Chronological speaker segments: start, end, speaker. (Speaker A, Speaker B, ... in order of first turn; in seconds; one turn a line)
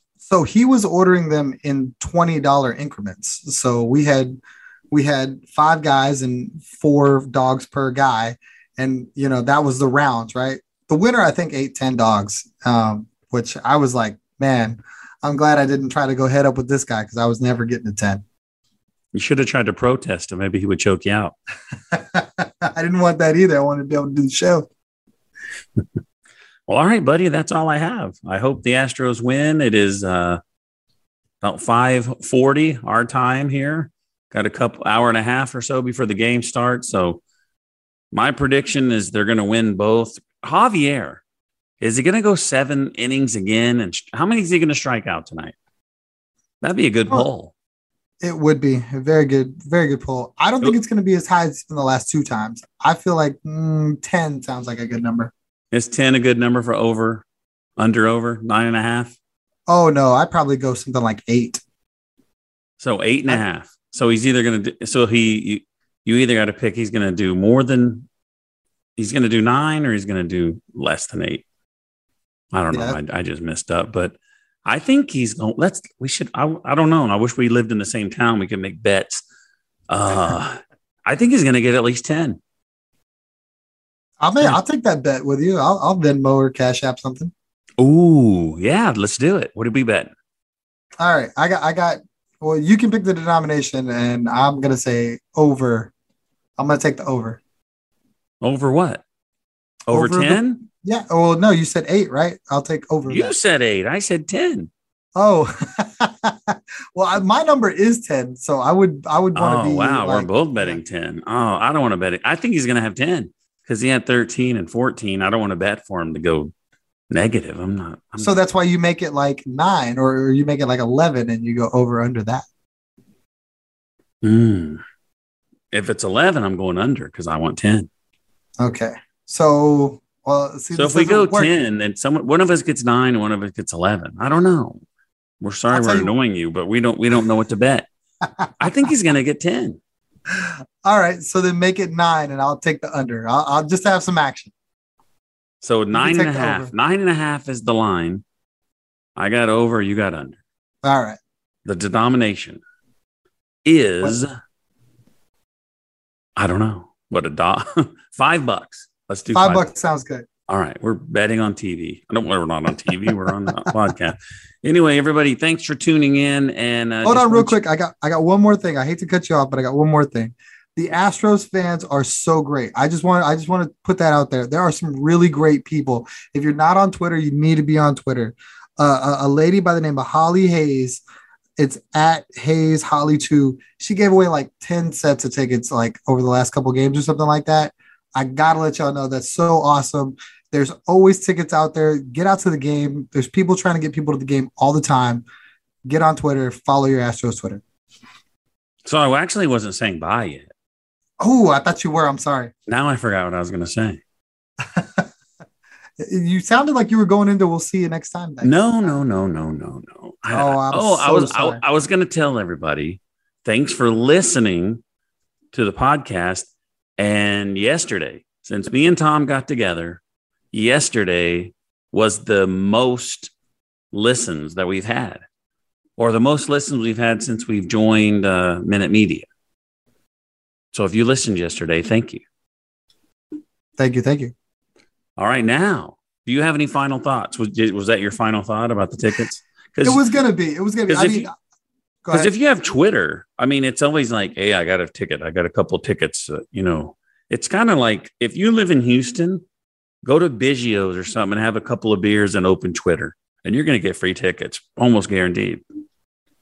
Speaker A: 0.2-4.4
Speaker A: 4.9-18.2
Speaker B: 19.1-21.4
Speaker A: 21.9-24.7
Speaker B: 26.7-30.4
Speaker B: 31.4-37.2
Speaker B: 38.1-41.2
Speaker B: 41.8-45.5
Speaker B: 46.6-47.5
Speaker A: 48.2-55.3
Speaker B: 55.7-57.2
Speaker B: 57.8-59.1
Speaker A: 59.7-61.6
Speaker B: 62.8-68.1
Speaker B: 69.0-71.4
Speaker B: 72.5-79.2
Speaker A: 72.7-73.0
Speaker B: 79.9-82.4
Speaker A: 84.2-87.3
Speaker B: 87.8-90.1
Speaker A: 91.0-95.9
Speaker A: 96.6-97.4
Speaker B: 98.4-99.0
Speaker B: 99.9-100.6
Speaker A: 99.9-103.3
Speaker B: 103.1-104.7
Speaker A: 105.2-110.8
Speaker B: 109.3-116.5
Speaker B: 117.1-118.4
Speaker A: 118.2-122.5
Speaker B: 124.2-124.8
Speaker B: 125.7-127.9
Speaker A: 128.6-131.5
Speaker B: 130.7-134.8
Speaker B: 135.4-137.9
Speaker A: 135.7-136.1
Speaker B: 138.6-139.8
Speaker A: 140.3-144.5
Speaker B: 145.6-148.2
Speaker A: 145.9-146.7
Speaker B: 149.2-150.4
Speaker A: 150.8-151.2
Speaker B: 151.6-152.6
Speaker B: 153.6-154.3
Speaker B: 156.4-159.7
Speaker A: 159.3-160.3
Speaker B: 160.5-167.6
Speaker A: 162.9-163.7
Speaker A: 167.1-181.0
Speaker A: 181.6-195.2
Speaker A: 195.8-197.6
Speaker B: 198.8-200.5
Speaker A: 201.2-202.5
Speaker B: 202.7-204.0
Speaker A: 204.6-205.1
Speaker A: 206.0-208.6
Speaker B: 208.4-214.8
Speaker A: 210.3-211.6
Speaker B: 215.5-220.0
Speaker B: 220.5-223.3
Speaker B: 223.9-225.2
Speaker B: 226.0-229.3
Speaker B: 230.7-232.2
Speaker A: 233.8-234.3
Speaker B: 235.2-240.0
Speaker A: 239.8-241.3
Speaker B: 240.9-241.3
Speaker A: 242.0-242.3
Speaker B: 242.1-249.4
Speaker B: 250.0-255.6